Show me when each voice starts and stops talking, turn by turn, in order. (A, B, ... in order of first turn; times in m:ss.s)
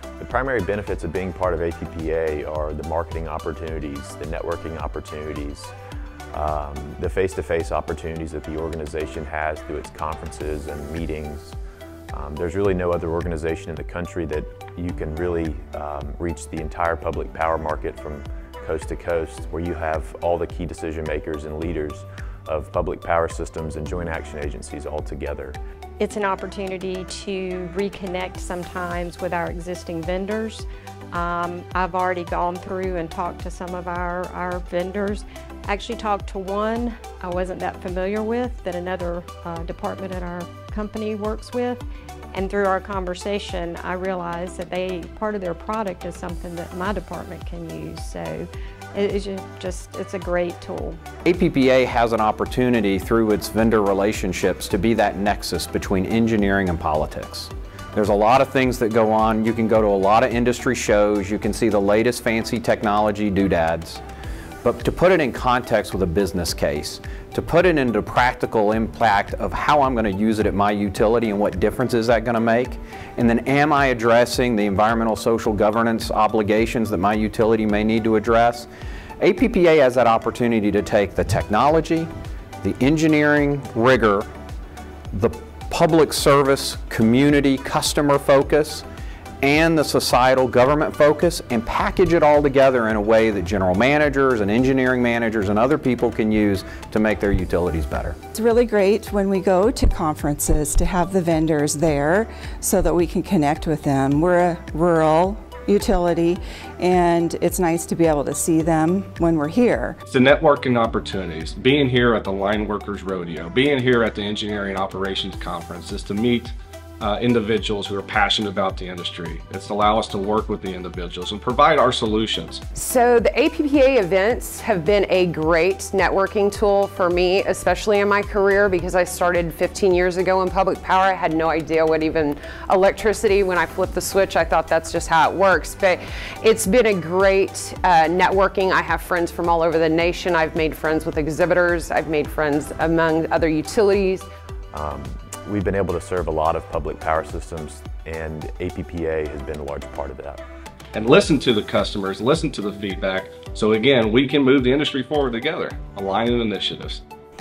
0:00.2-0:05.7 A
0:06.3-0:11.6 A
0:12.1-0:25.6 A
0:26.0-0:51.0 B
0:51.2-1:04.0 C
1:04.6-1:18.7 C
1:19.2-1:22.1 C
1:22.6-1:24.3 C
1:25.1-1:28.8 C
1:29.4-1:38.2 C
1:38.3-1:50.0 D
1:50.1-2:02.6 E
2:02.7-2:24.2 F
2:24.7-2:30.4 A
2:30.9-2:37.0 E